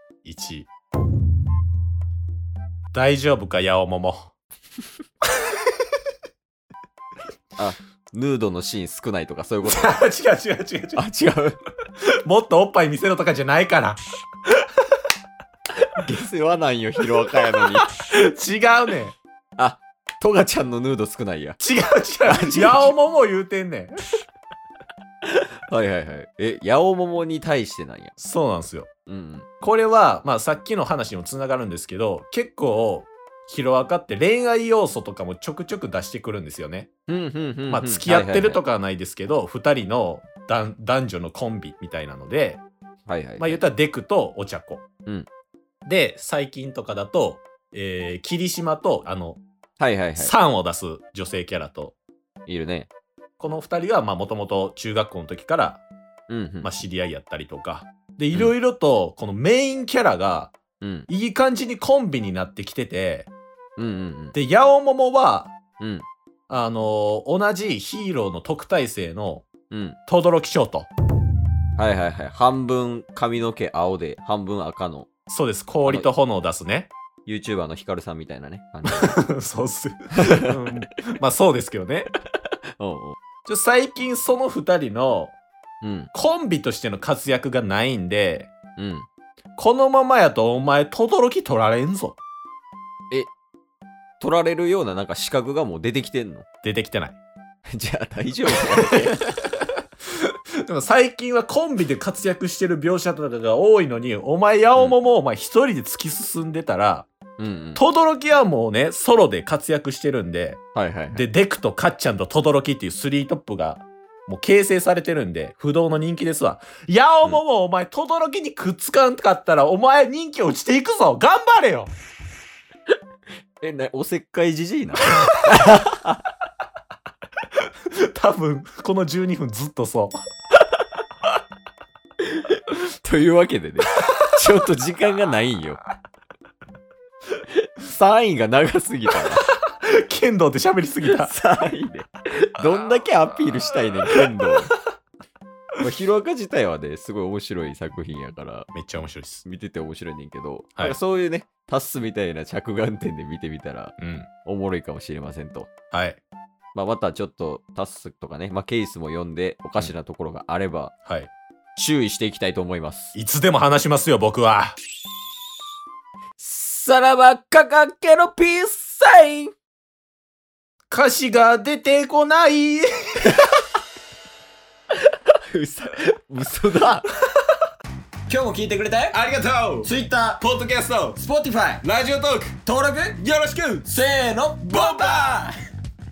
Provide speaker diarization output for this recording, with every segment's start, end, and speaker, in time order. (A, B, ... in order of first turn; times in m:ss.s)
0:00.2-0:00.7 A
0:02.9-0:04.3 A
0:07.6-0:09.9 B
0:09.6-0:11.0 A
0:11.0-0:11.6 B
0:12.2-0:14.0 A
0:16.0-0:17.9 B
0:17.9-0:19.2 A
0:19.6-0:21.6 B
0:21.6-0:24.0 A
0:22.3-0:22.9 B
0:25.2-0:28.2 B
0:28.2-0:28.9 A
0:29.1-0:29.5 B
0:29.6-0:36.9 A
0:37.1-0:38.6 B
0:37.7-0:42.6 A
0:43.1-0:43.6 B
0:43.4-0:44.8 A
0:45.9-0:49.4 A
0:49.8-0:50.3 B
0:50.2-0:52.0 A
0:52.5-0:52.9 B
0:53.4-0:55.8 A
0:56.3-0:56.7 B
0:56.6-1:00.6 A
1:00.8-1:01.1 B
1:01.1-1:03.3 A
1:03.8-1:04.4 B
1:04.3-1:05.5 A
1:05.8-1:06.1 B
1:06.5-1:09.5 A
1:09.7-1:10.0 B
1:10.1-1:10.9 A
1:11.8-1:15.1 B
1:15.3-1:16.9 A
1:17.3-1:19.2 B
1:18.8-1:22.1 A
1:22.8-1:23.2 B
1:23.5-1:25.4 A
1:25.8-1:26.1 B
1:26.1-1:28.5 A
1:28.8-1:29.1 B
1:29.6-1:32.2 A
1:34.2-1:36.4 B
1:36.6-1:37.2 A
1:37.7-1:39.3 B
1:40.6-1:47.1 A
1:47.4-1:47.8 B
1:47.8-2:01.9 A
1:50.8-1:51.2 B
2:03.6-2:06.2 B
2:08.1-2:10.2 A
2:12.3-2:15.8 B
2:17.8-2:19.5 B
2:19.7-2:21.3 A
2:21.2-2:24.7 B
2:25.8-2:28.7 B
2:28.7-2:29.4 A
2:29.4-2:33.9 B
2:34.0-2:34.3 A
2:34.4-2:35.7 B
2:35.9-2:36.2 A
2:36.8-2:40.9 B
2:41.0-2:41.3 A
2:41.8-2:43.1 B
2:43.1-2:44.8 A
2:46.4-2:49.5 B
2:50.9-2:53.4 A
2:53.3-2:53.5 B
2:55.1-2:57.1 B
2:58.3-3:05.5 C
2:59.1-2:59.6 A
3:04.7-3:05.1 A